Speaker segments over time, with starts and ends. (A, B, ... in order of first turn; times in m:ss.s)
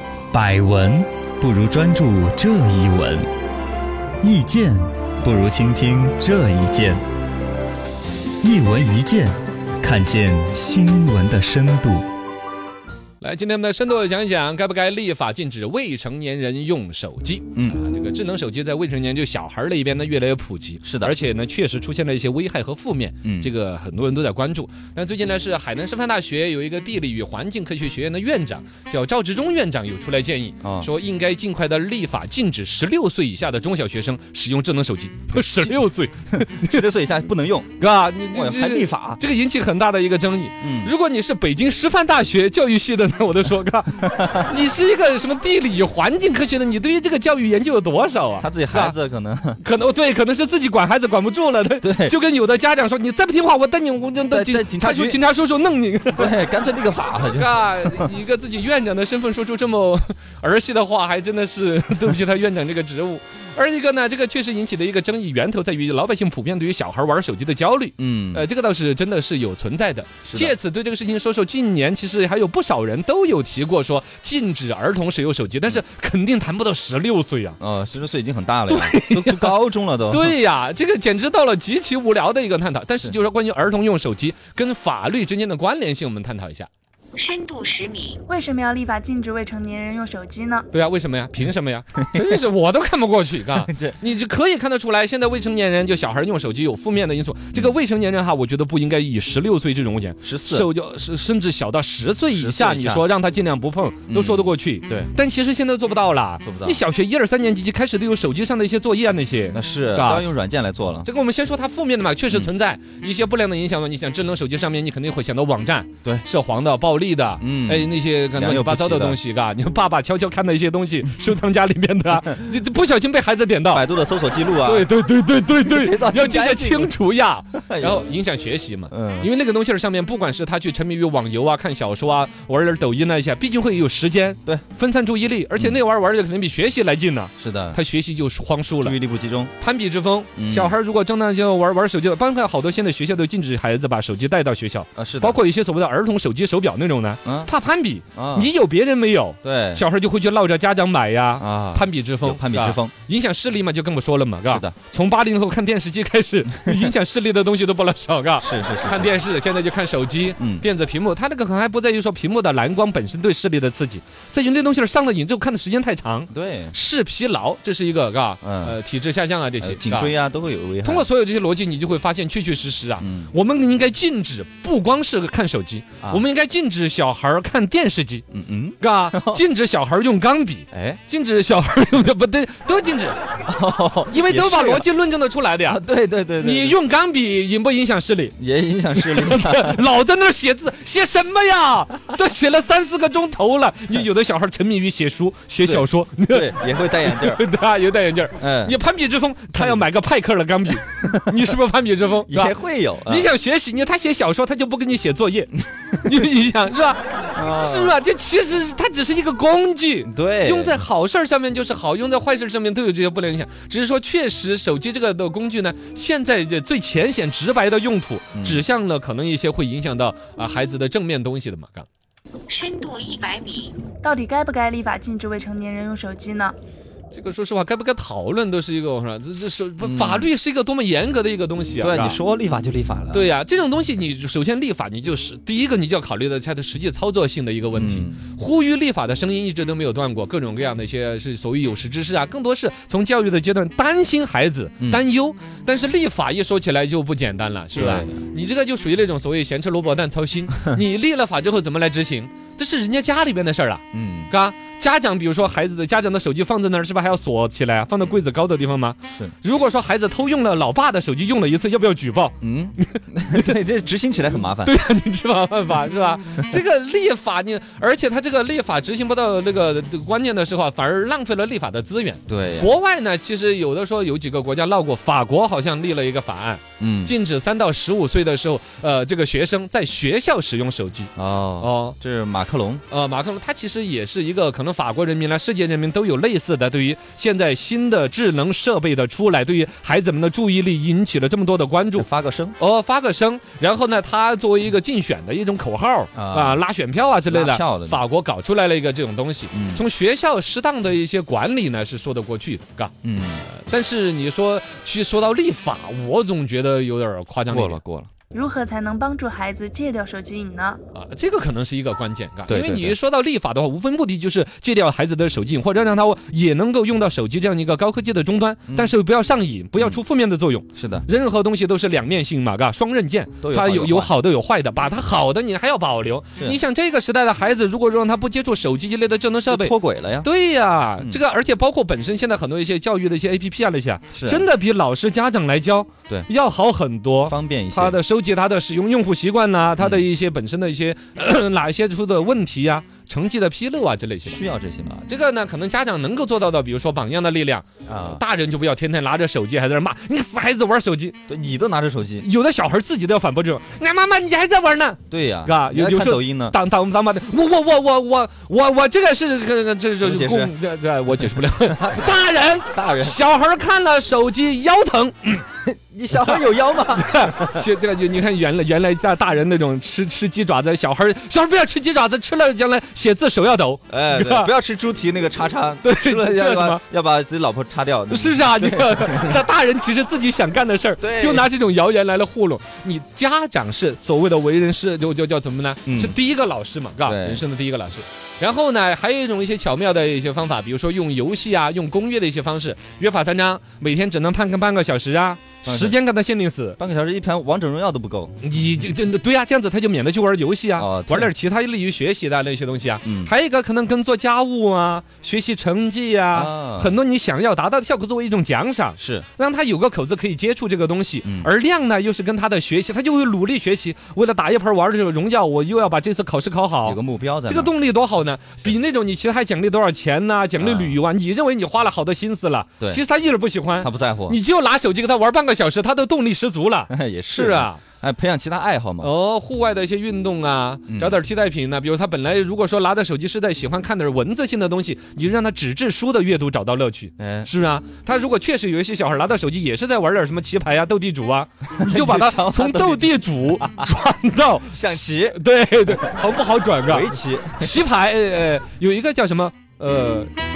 0:00.3-0:03.3 A
0:04.2-0:07.0 A
0:08.4-0:12.1 A
0:13.2-0:36.8 B
0:20.8-0:21.1 A
0:23.2-0:23.5 A
0:30.6-0:30.9 A
0:35.3-0:35.8 A
0:36.3-0:37.8 A
0:37.8-0:48.9 B
0:38.3-0:39.2 A
0:40.6-0:40.9 A
0:48.4-0:49.6 A
0:49.6-0:56.4 B
0:51.8-0:52.1 A
0:54.3-0:55.2 A
0:56.1-0:58.1 A
0:57.2-1:17.6 B
1:08.0-1:08.4 A
1:10.3-1:10.6 A
1:17.6-1:20.3 A
1:18.7-1:19.5 B
1:20.1-1:26.7 B
1:27.1-1:28.2 C
1:28.3-1:30.7 D
1:30.7-1:50.2 B
1:32.0-1:32.4 A
1:33.5-1:34.0 A
1:40.2-1:40.7 A
1:42.3-1:43.1 A
1:44.1-1:45.1 A
1:46.4-1:46.8 A
1:49.5-1:51.1 A
1:51.0-2:03.8 B
1:57.4-1:59.2 A
2:03.7-2:04.9 A
2:04.6-2:19.0 B
2:05.6-2:07.0 A
2:07.5-2:08.0 A
2:08.9-2:09.3 A
2:17.4-2:17.8 A
2:18.8-2:19.5 A
2:19.6-2:50.1 B
2:20.4-2:20.7 A
2:25.0-2:25.4 A
2:27.2-2:27.5 A
2:28.1-2:28.5 A
2:29.4-2:29.8 A
2:31.4-2:32.9 A
2:34.5-2:34.7 A
2:36.6-2:36.9 A
2:38.4-2:39.2 A
2:40.4-2:40.6 A
2:46.3-2:46.8 A
2:48.4-2:48.8 A
2:49.6-2:51.1 A
2:50.8-2:58.2 B
2:53.0-2:53.3 A
2:58.3-2:59.4 A
2:58.8-3:03.2 B
3:00.7-3:01.0 A
3:03.4-3:04.8 A
3:04.1-3:05.8 B
3:05.6-3:06.8 A
3:06.4-3:08.3 B
3:08.4-3:09.8 A
3:08.9-3:16.5 B
3:15.6-3:17.4 A
3:17.0-3:22.5 B
3:18.4-3:18.8 A
3:19.5-3:19.8 A
3:22.3-3:23.3 A
3:23.0-3:27.0 B
3:27.3-3:28.0 A
3:27.6-3:41.9 B
3:30.0-3:30.8 A
3:38.3-3:38.6 A
3:42.5-3:43.8 C
3:44.0-3:46.6 D
3:47.1-3:52.2 B
3:49.8-3:50.3 A
3:51.8-3:53.3 A
3:53.1-4:23.5 B
3:57.7-3:58.2 A
4:07.7-4:08.2 A
4:13.9-4:14.3 A
4:22.4-4:24.7 A
4:24.6-4:42.0 B
4:32.3-4:32.7 A
4:36.8-4:37.1 A
4:41.2-4:42.8 A
4:42.9-4:52.1 B
4:52.0-4:52.6 A
4:52.6-5:02.9 B
4:56.1-4:56.6 A
4:57.3-4:58.0 A
4:59.5-4:59.8 A
5:03.0-5:03.4 A
5:03.5-5:07.8 B
5:07.5-5:08.1 A
5:08.3-5:10.8 D
5:10.9-5:44.4 B
5:12.5-5:13.0 A
5:18.7-5:19.0 A
5:20.7-5:21.0 A
5:23.4-5:24.1 A
5:29.5-5:30.3 A
5:34.1-5:34.4 A
5:37.2-5:38.0 A
5:39.8-5:40.0 A
5:44.2-5:45.0 A
5:45.0-5:51.2 B
5:47.9-5:48.2 A
5:51.3-5:52.2 A
5:52.2-6:05.4 B
5:55.1-5:56.6 A
6:00.0-6:00.5 A
6:01.6-6:03.2 A
6:05.6-6:07.6 A
6:07.0-6:14.5 B
6:13.9-6:19.4 A
6:15.8-6:16.8 B
6:18.1-6:36.8 B
6:21.0-6:21.5 A
6:25.8-6:26.1 A
6:27.0-6:27.4 A
6:35.6-6:36.0 A
6:36.8-6:38.4 A
6:38.4-7:07.8 B
6:40.8-6:41.3 A
6:43.0-6:43.3 A
6:46.3-6:47.0 A
6:49.0-6:49.3 A
6:51.2-6:51.5 A
6:56.8-6:57.7 A
7:00.6-7:01.0 A
7:03.8-7:04.4 A
7:06.9-7:09.1 A
7:09.0-7:30.3 B
7:10.9-7:11.2 A
7:17.2-7:17.5 A
7:21.8-7:23.2 A
7:24.7-7:26.1 A
7:26.8-7:27.8 A